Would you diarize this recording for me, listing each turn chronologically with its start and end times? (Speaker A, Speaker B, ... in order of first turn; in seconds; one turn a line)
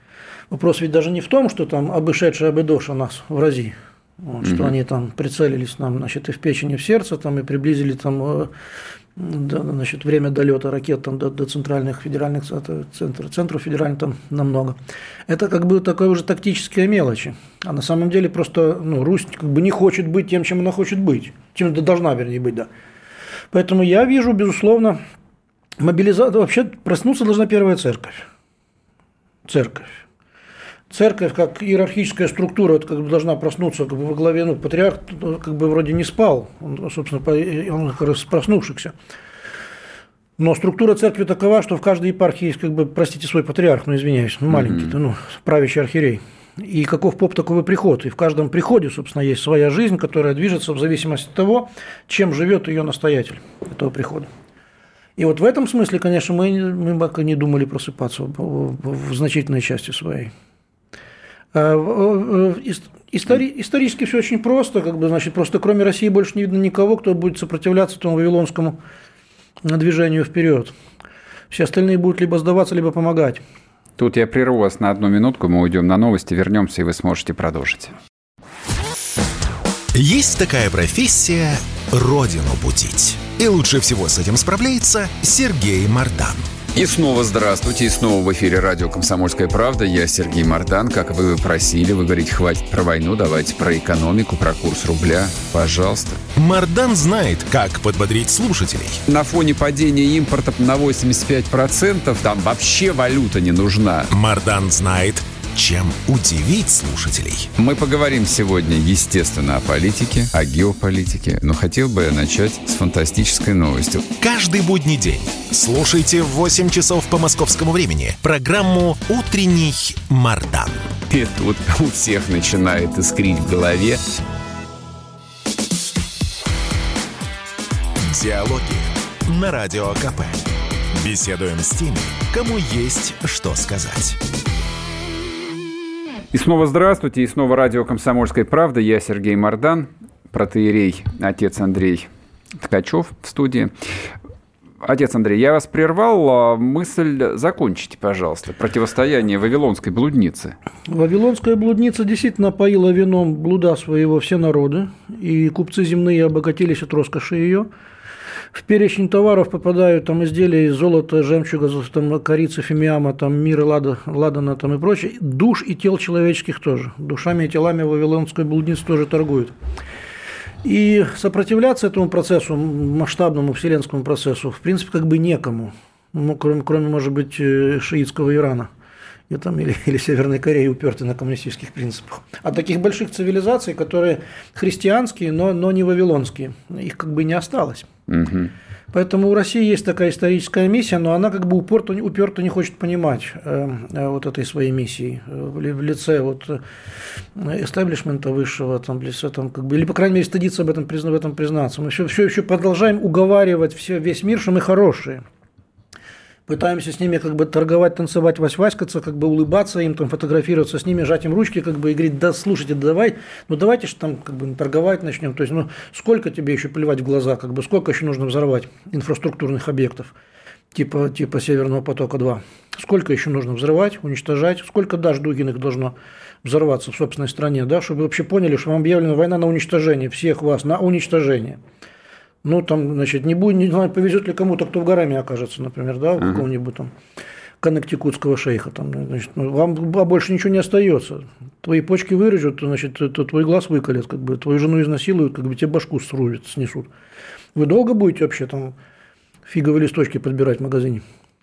Speaker A: 0.5-8.5
Speaker B: 4.4-4.7
Speaker A: 9.2-14.8
Speaker A: 15.3-22.7
Speaker A: 23.5-25.0
Speaker A: 25.8-28.2
Speaker A: 29.5-30.0
Speaker A: 30.9-38.9
Speaker A: 40.4-54.3
Speaker B: 44.6-44.9
Speaker A: 55.2-60.3
Speaker A: 61.5-68.8
Speaker A: 69.6-70.7
Speaker A: 71.5-73.4
Speaker B: 74.0-77.9
Speaker C: 79.9-86.5
Speaker B: 86.7-96.2
Speaker C: 96.3-99.0
Speaker B: 99.1-104.1
Speaker C: 104.1-107.5
Speaker B: 107.6-114.0
Speaker C: 114.2-120.9
Speaker B: 121.1-124.0
Speaker C: 128.0-134.2
Speaker B: 136.3-142.1
Speaker B: 142.6-143.7
Speaker B: 144.8-150.5
Speaker A: 150.9-157.7
Speaker A: 158.5-169.5
Speaker A: 170.6-178.7
Speaker A: 179.3-187.9
Speaker B: 188.1-188.5
Speaker A: 188.9-196.6
Speaker A: 197.3-205.2
Speaker A: 206.5-220.1
Speaker A: 220.7-231.6
Speaker A: 232.4-236.9
Speaker A: 237.6-246.9
Speaker A: 247.5-248.7
Speaker A: 249.4-251.0